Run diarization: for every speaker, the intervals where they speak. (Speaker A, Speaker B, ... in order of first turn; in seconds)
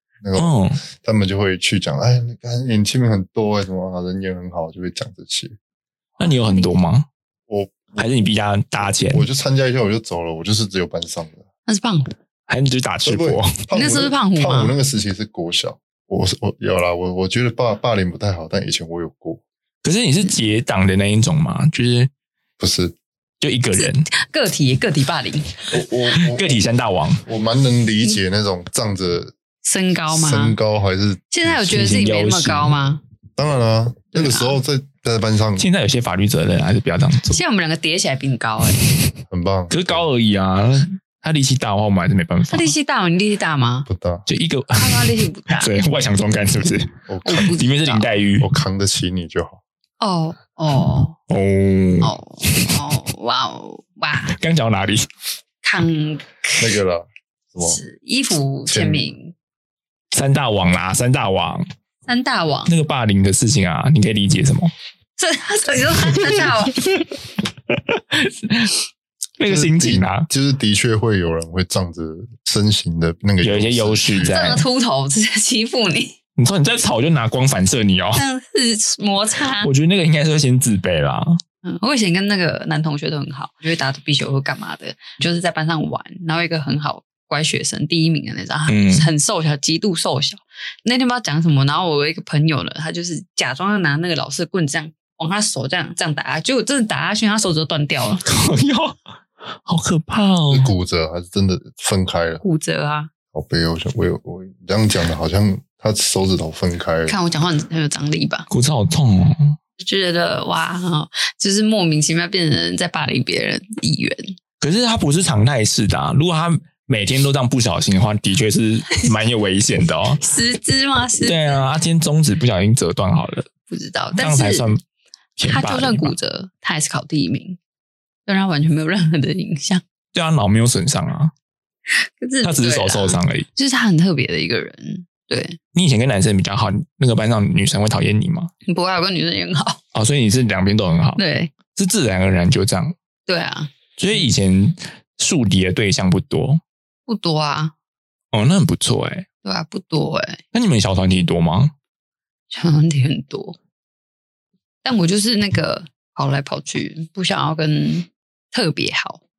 Speaker A: 0.2-5.6, 7.5-8.1, 8.8-11.5, 13.0-19.4, 22.6-23.0, 25.7-26.6, 27.3-29.4, 30.1-31.6, 33.4-35.6, 39.3-40.0, 43.9-44.3, 47.1-47.5, 48.4-49.6, 56.6-57.8, 58.7-59.1, 69.5-74.5, 100.5-102.4, 103.3-107.2
Speaker B: 0.3-0.8, 6.2-7.1, 8.0-9.3, 12.5-13.5, 19.8-22.1, 23.4-24.1, 26.2-27.2, 31.6-32.8, 35.6-37.4, 39.7-42.7, 44.3-48.5, 51.3-52.8, 54.3-55.1, 60.1-61.7, 62.7-64.7, 66.1-68.8, 69.4-70.3, 73.4-74.7, 76.4-78.2, 79.6-81.4, 88.7-89.1, 98.2-99.0, 99.7-100.7, 108.5-109.6, 114.6-120.2, 121.2-123.5, 124.2-124.8, 125.4-126.2, 130.1-131.3, 132.4-133.5, 135.7-138.5, 139.9-141.2, 141.7-142.9, 144.0-146.6, 148.3-149.3, 150.5-151.7
Speaker C: 6.2-6.7, 11.7-12.1, 13.7-14.7, 23.8-25.5, 29.6-30.6, 31.3-33.0, 34.1-34.6, 37.3-38.8, 42.5-43.9, 44.7-45.7, 47.2-48.1, 50.0-51.2, 52.0-54.4, 55.6-56.8, 57.6-59.4, 62.1-62.7, 65.2-66.8, 74.3-76.2, 78.2-79.7, 81.6-98.2, 102.4-103.1, 107.1-108.5, 109.8-114.3, 120.2-121.6, 123.7-124.7, 125.5-127.6, 128.3-129.8, 131.9-135.6, 138.7-139.8, 141.2-141.5, 143.3-143.7, 147.1-147.7, 149.4-150.4, 152.5-153.6, 154.8-159.2